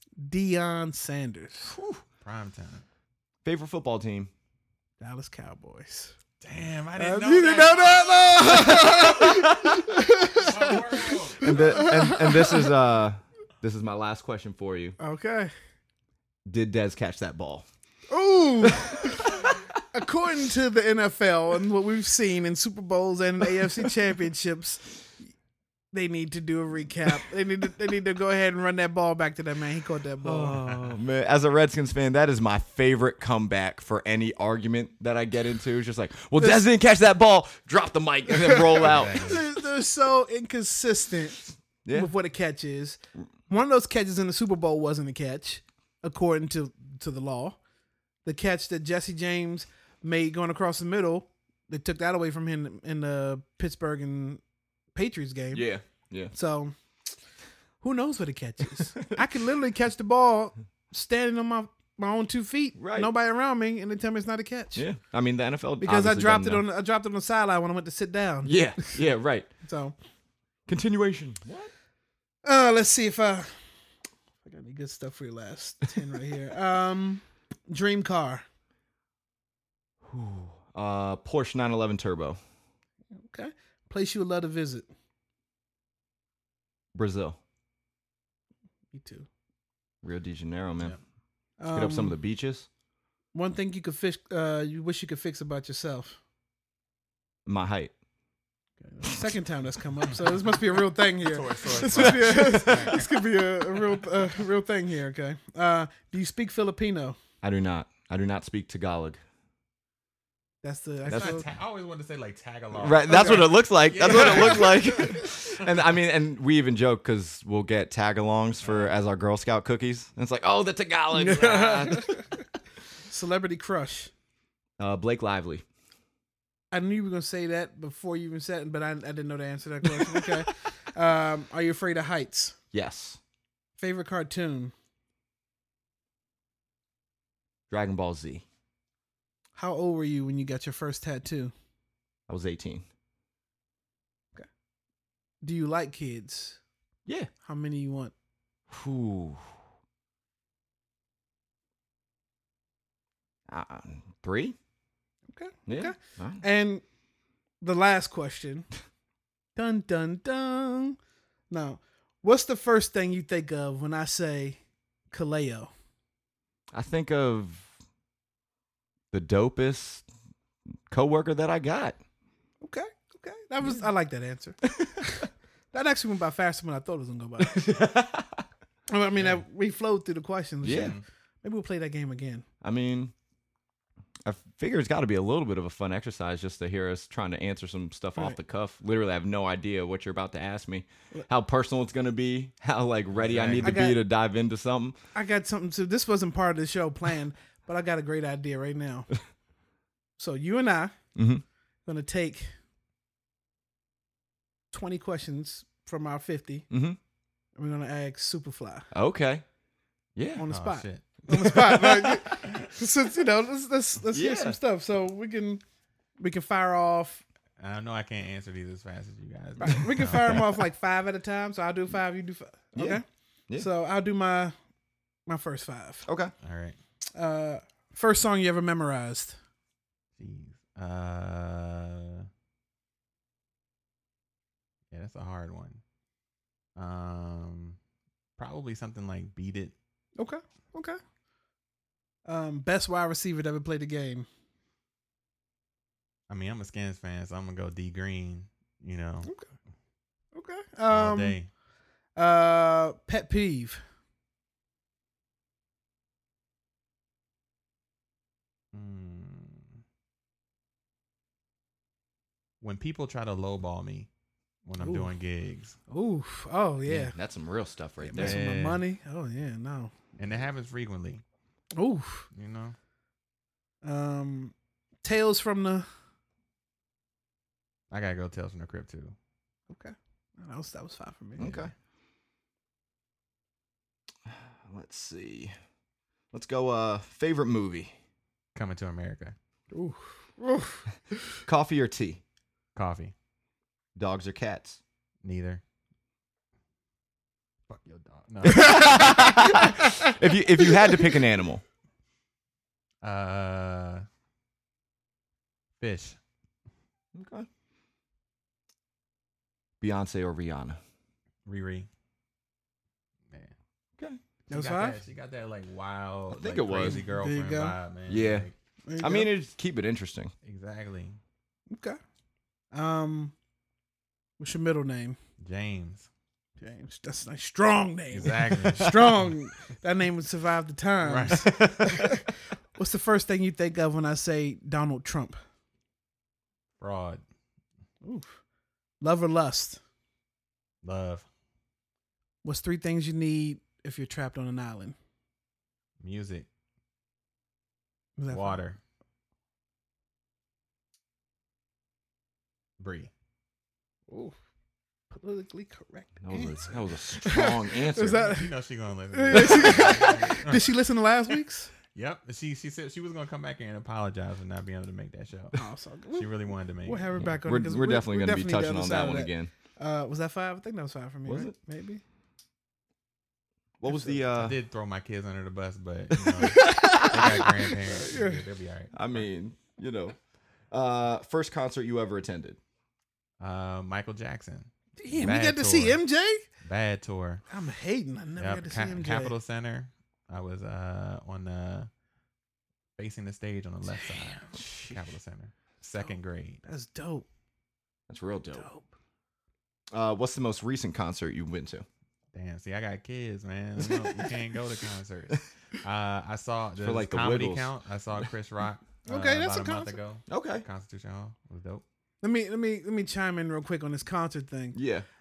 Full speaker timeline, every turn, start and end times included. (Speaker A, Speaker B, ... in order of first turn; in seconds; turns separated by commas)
Speaker A: 0.2-1.7, Speaker B: 1.7-2.0, Speaker C: 2.2-2.8, Speaker B: 3.4-4.3, Speaker A: 5.0-6.1, Speaker C: 6.4-9.0, Speaker A: 7.0-12.7, Speaker B: 8.5-9.9, Speaker C: 10.3-11.9, Speaker B: 11.4-15.0, Speaker A: 15.0-15.5, Speaker B: 16.4-17.6, Speaker A: 18.1-25.0, Speaker B: 18.6-19.7, Speaker B: 23.6-23.9, Speaker A: 25.9-30.6, Speaker B: 30.2-39.4, Speaker C: 30.7-30.9, Speaker A: 36.4-36.6, Speaker A: 38.4-47.6, Speaker C: 38.8-39.4, Speaker B: 41.8-42.1, Speaker A: 48.2-54.4, Speaker A: 54.9-55.7, Speaker B: 55.5-56.3, Speaker A: 56.3-56.7, Speaker A: 57.8-64.8, Speaker B: 62.8-63.1, Speaker B: 64.7-66.6, Speaker A: 65.8-69.0, Speaker B: 68.4-69.5, Speaker A: 69.6-69.9, Speaker B: 70.7-71.7, Speaker A: 72.4-73.5, Speaker A: 74.4-78.4, Speaker B: 80.0-82.4, Speaker A: 83.1-84.9, Speaker B: 86.9-87.4, Speaker A: 88.9-89.3, Speaker B: 90.0-91.0, Speaker A: 91.6-92.2, Speaker B: 91.7-92.7, Speaker A: 93.3-96.2, Speaker B: 97.5-97.9, Speaker A: 98.8-107.2, Speaker C: 100.1-104.0, Speaker B: 102.0-103.0, Speaker B: 107.4-109.2, Speaker A: 110.6-111.5, Speaker C: 111.0-115.6, Speaker B: 111.1-111.4, Speaker B: 112.7-122.2, Speaker A: 113.1-113.5, Speaker A: 114.1-114.5, Speaker C: 118.6-118.9, Speaker A: 121.1-122.2, Speaker A: 123.1-124.1, Speaker B: 124.8-125.6, Speaker A: 126.7-132.6, Speaker B: 130.0-130.3, Speaker B: 132.7-133.2, Speaker A: 133.8-134.7, Speaker B: 137.7-138.4, Speaker A: 139.6-141.5, Speaker B: 142.3-142.8, Speaker A: 145.4-146.6, Speaker A: 147.4-148.1, Speaker B: 148.7-149.5, Speaker B: 153.5-154.6, Speaker A: 155.3-156.8, Speaker B: 155.7-156.4, Speaker A: 157.6-158.7, Speaker A: 159.6-161.0, Speaker A: 161.5-164.6, Speaker A: 165.1-165.7, Speaker B: 166.7-167.7, Speaker B: 169.1-170.0, Speaker B: 170.9-172.0, Speaker A: 172.6-177.6, Speaker B: 177.4-178.4, Speaker A: 178.9-182.4, Speaker C: 179.1-179.4, Speaker B: 180.6-180.9, Speaker C: 180.7-181.0, Speaker B: 182.6-183.1, Speaker B: 184.2-194.9, Speaker C: 193.1-193.8, Speaker A: 193.6-194.0, Speaker A: 195.1-199.1, Speaker A: 200.2-200.9, Speaker B: 201.1-201.4, Speaker A: 201.8-202.5, Speaker A: 204.7-206.7, Speaker B: 206.7-207.0, Speaker A: 207.6-208.9, Speaker B: 208.9-209.4, Speaker B: 210.2-210.4, Speaker A: 210.4-215.6, Speaker C: 210.5-211.0, Speaker B: 211.3-212.4, Speaker B: 214.1-214.6, Speaker A: 216.2-217.2, Speaker C: 217.6-220.4, Speaker A: 219.6-223.0, Speaker B: 222.7-223.7, Speaker A: 223.6-224.5, Speaker A: 225.3-226.1, Speaker B: 226.0-226.3, Speaker C: 226.4-226.8, Speaker A: 227.2-229.4, Speaker C: 230.2-232.3, Speaker C: 234.9-235.8, Speaker C: 236.8-237.8, Speaker C: 238.4-239.7, Speaker A: 240.2-241.0, Speaker A: 242.2-244.3, Speaker C: 246.3-249.3, Speaker A: 250.3-251.4, Speaker C: 250.9-251.5, Speaker A: 252.2-253.8, Speaker C: 258.7-259.8, Speaker C: 262.6-264.1, Speaker C: 264.6-265.8, Speaker A: 264.8-265.1, Speaker A: 265.9-267.1, Speaker B: 266.9-268.4, Speaker A: 268.0-269.9, Speaker C: 268.1-268.8, Speaker C: 270.2-271.2, Speaker A: 271.8-272.3, Speaker C: 272.3-272.8, Speaker A: 273.8-275.9, Speaker C: 277.9-279.1, Speaker A: 279.7-281.6, Speaker B: 281.4-281.7, Speaker B: 284.2-285.5, Speaker B: 286.3-287.9, Speaker C: 288.5-289.3, Speaker A: 289.7-291.2, Speaker B: 291.4-292.2, Speaker C: 292.8-293.1, Speaker B: 293.9-294.8, Speaker C: 295.2-295.6, Speaker C: 297.7-299.3, Speaker B: 298.4-301.6, Speaker A: 298.5-300.1, Speaker C: 303.0-304.1, Speaker C: 305.8-306.2, Speaker B: 307.1-307.5, Speaker B: 309.8-310.8, Speaker C: 311.4-311.9, Speaker A: 314.5-315.0, Speaker C: 314.5-318.5, Speaker B: 316.3-317.0, Speaker A: 316.8-317.8, Speaker B: 318.1-318.5, Speaker A: 318.8-319.3, Speaker B: 319.0-320.3, Speaker C: 320.4-321.2, Speaker A: 321.7-322.0, Speaker A: 322.7-323.3, Speaker A: 324.4-325.2, Speaker C: 325.4-326.1, Speaker A: 326.6-335.4, Speaker C: 328.1-329.3, Speaker C: 331.0-332.2, Speaker C: 336.8-337.2, Speaker A: 338.0-338.4, Speaker A: 339.0-339.8, Speaker C: 340.8-341.2, Speaker A: 342.4-344.9, Speaker C: 346.0-346.5, Speaker A: 348.2-348.6, Speaker C: 348.3-348.8, Speaker C: 352.8-353.1, Speaker A: 354.1-354.4, Speaker A: 355.1-358.5, Speaker B: 356.2-358.3, Speaker C: 358.1-360.7, Speaker A: 359.1-361.7, Speaker B: 359.3-360.1, Speaker C: 361.9-367.1, Speaker A: 365.6-366.3, Speaker A: 366.8-372.0, Speaker B: 367.2-369.5, Speaker B: 371.2-371.5, Speaker B: 373.8-374.6, Speaker A: 373.9-374.2, Speaker C: 374.3-379.2, Speaker A: 376.4-378.4, Speaker B: 376.6-377.5, Speaker B: 378.9-380.1, Speaker B: 380.7-382.6, Speaker C: 383.4-386.0, Speaker A: 385.0-386.4, Speaker C: 386.6-387.4, Speaker A: 387.5-389.3, Speaker C: 388.4-391.9, Speaker C: 393.0-396.6, Speaker B: 394.5-395.0, Speaker A: 396.6-397.2, Speaker B: 398.1-398.6, Speaker A: 398.5-398.9, Speaker B: 399.9-401.8, Speaker C: 402.3-411.8, Speaker B: 403.8-404.2, Speaker B: 406.8-407.7, Speaker A: 409.1-409.9, Speaker B: 410.3-410.6, Speaker A: 412.2-414.8, Speaker B: 414.7-415.1